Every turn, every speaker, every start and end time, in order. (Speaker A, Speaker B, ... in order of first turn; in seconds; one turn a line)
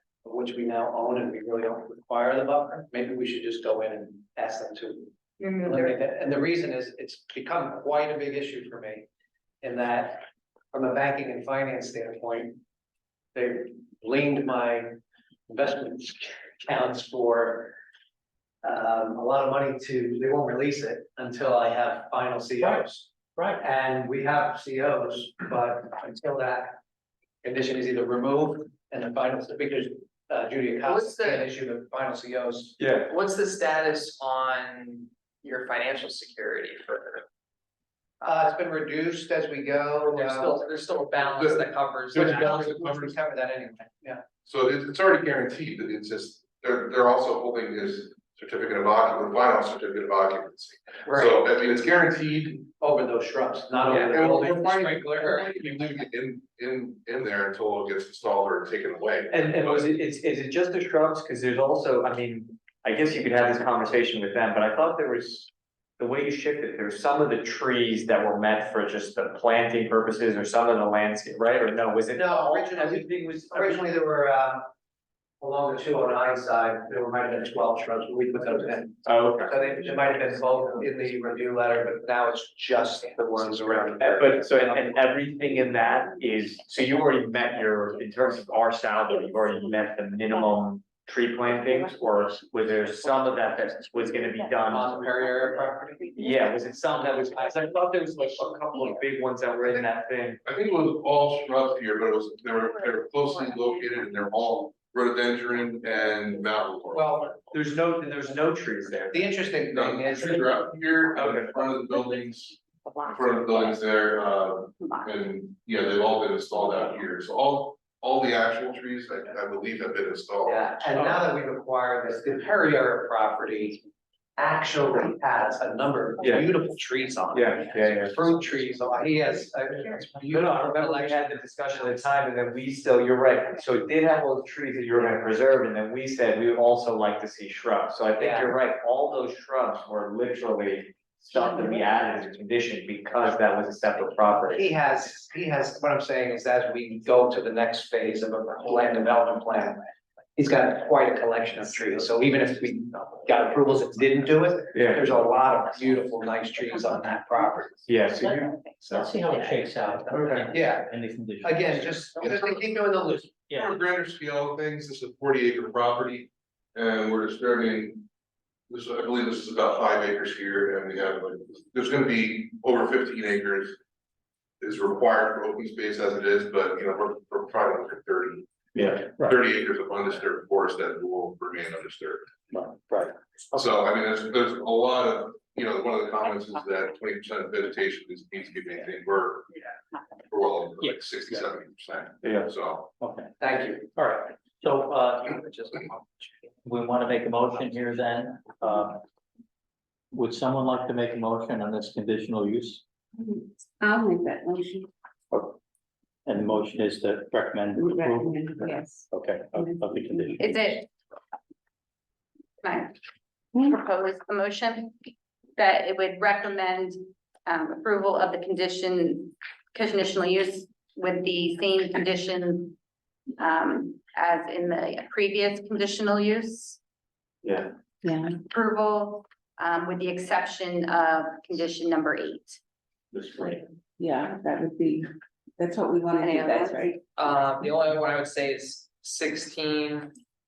Speaker A: 0.2-9.1
Speaker B: 5.4-5.9
Speaker A: 9.6-12.6
Speaker A: 13.3-17.7
Speaker A: 18.6-26.8
Speaker C: 23.4-23.6
Speaker A: 27.4-32.8
Speaker D: 30.9-31.5
Speaker E: 32.8-33.1
Speaker D: 33.1-37.2
Speaker A: 38.2-40.7
Speaker D: 40.1-42.8
Speaker F: 41.2-43.2
Speaker A: 42.1-44.2
Speaker F: 44.5-52.7
Speaker A: 51.0-51.4
Speaker A: 52.8-55.9
Speaker F: 54.1-59.9
Speaker E: 59.3-74.0
Speaker A: 72.1-74.7
Speaker A: 75.4-84.8
Speaker E: 79.0-79.5
Speaker E: 84.0-95.1
Speaker A: 94.7-96.2
Speaker E: 96.2-100.4
Speaker F: 100.4-107.4
Speaker A: 106.9-107.3
Speaker E: 107.5-109.3
Speaker A: 109.1-110.7
Speaker F: 109.7-112.6
Speaker E: 111.1-111.7
Speaker B: 112.8-113.7
Speaker F: 113.1-120.7
Speaker B: 114.8-115.1
Speaker A: 120.4-123.8
Speaker E: 121.0-121.2
Speaker A: 124.3-132.1
Speaker E: 126.2-126.5
Speaker E: 127.3-128.2
Speaker E: 130.3-144.7
Speaker A: 138.2-138.5
Speaker A: 144.5-149.8
Speaker A: 150.3-157.8
Speaker E: 154.7-155.0
Speaker E: 157.9-159.0
Speaker C: 158.1-162.1
Speaker E: 160.1-160.5
Speaker A: 160.5-160.9
Speaker A: 161.4-163.3
Speaker F: 162.2-162.5
Speaker C: 163.1-163.8
Speaker F: 163.5-168.1
Speaker F: 168.7-173.8
Speaker F: 174.6-182.3
Speaker C: 178.8-179.4
Speaker C: 182.5-183.1
Speaker F: 183.5-189.6
Speaker F: 190.3-192.9
Speaker C: 190.8-191.5
Speaker E: 192.2-192.5
Speaker C: 193.0-193.3
Speaker A: 193.4-193.9
Speaker C: 193.9-195.4
Speaker D: 195.4-196.0
Speaker C: 196.6-199.0
Speaker C: 200.1-202.8
Speaker G: 203.2-204.9
Speaker C: 205.3-205.6
Speaker C: 206.2-210.8
Speaker G: 207.7-209.1
Speaker G: 209.6-210.2
Speaker B: 210.4-210.9
Speaker B: 212.6-213.0
Speaker G: 213.5-213.8
Speaker B: 213.6-214.9
Speaker B: 215.6-222.8
Speaker B: 223.4-226.8
Speaker G: 228.0-228.4
Speaker B: 228.5-232.6
Speaker E: 233.1-233.6
Speaker G: 234.0-236.9
Speaker B: 236.2-237.1
Speaker D: 237.2-240.1